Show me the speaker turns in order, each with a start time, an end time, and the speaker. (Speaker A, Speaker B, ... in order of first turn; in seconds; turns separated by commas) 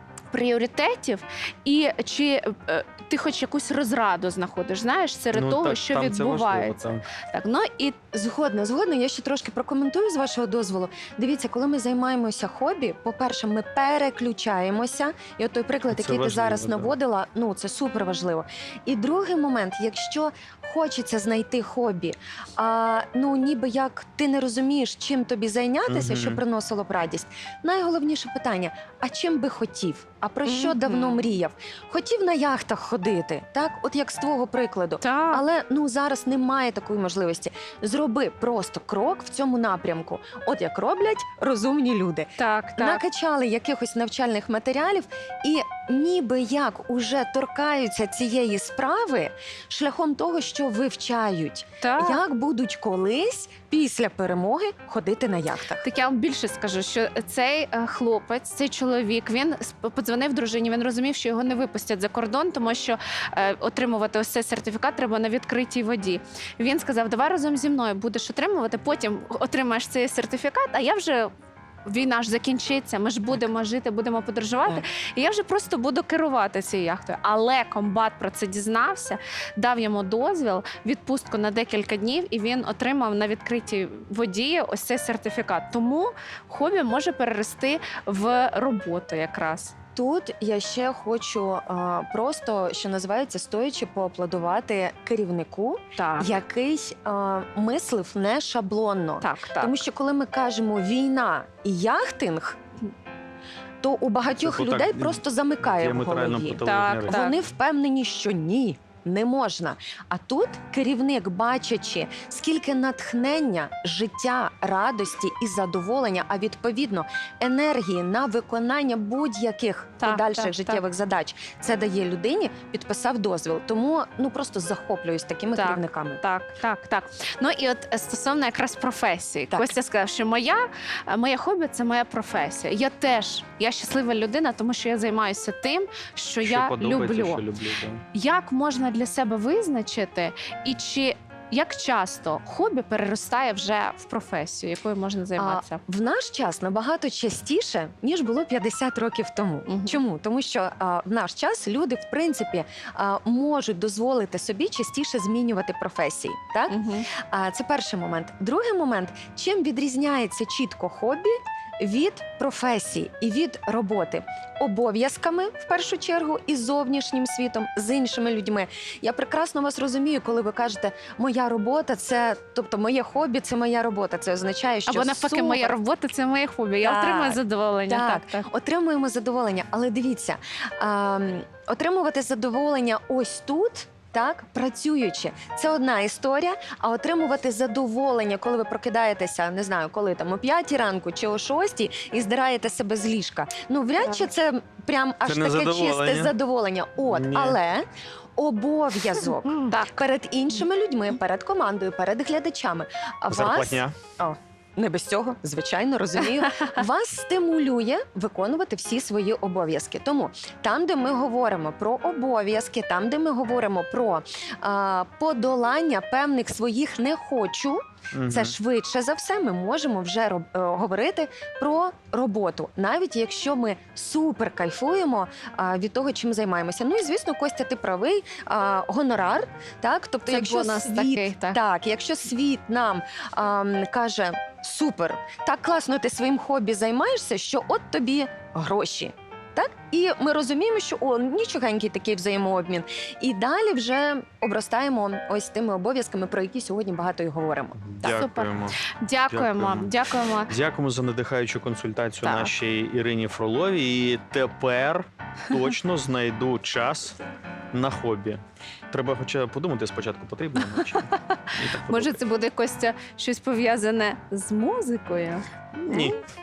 Speaker A: 0.3-8.0, Speaker B: 5.3-7.0, Speaker C: 8.1-55.8, Speaker B: 15.9-16.9, Speaker B: 25.9-26.4, Speaker A: 30.4-31.3, Speaker A: 35.0-35.4, Speaker A: 42.4-43.0, Speaker A: 51.8-52.2, Speaker A: 55.8-71.3, Speaker A: 71.8-89.7, Speaker C: 89.9-102.6, Speaker A: 96.0-96.3, Speaker A: 99.2-99.8, Speaker C: 103.8-126.2, Speaker B: 104.3-107.4, Speaker A: 106.6-107.4, Speaker A: 120.0-120.8, Speaker A: 125.5-137.4, Speaker B: 136.4-138.0, Speaker A: 138.1-145.8, Speaker C: 145.4-175.7, Speaker A: 149.7-150.0, Speaker A: 156.7-157.1, Speaker A: 174.8-178.5, Speaker C: 176.8-197.8, Speaker B: 195.2-196.3, Speaker B: 197.0-197.6, Speaker C: 198.4-247.8, Speaker A: 199.5-200.0, Speaker B: 203.3-203.9, Speaker B: 218.1-218.5, Speaker A: 230.3-231.6, Speaker B: 247.8-249.9, Speaker A: 248.0-250.5, Speaker B: 250.5-257.2, Speaker A: 252.2-252.5, Speaker B: 257.7-258.4, Speaker B: 258.9-262.2, Speaker A: 260.9-266.1, Speaker B: 265.8-266.2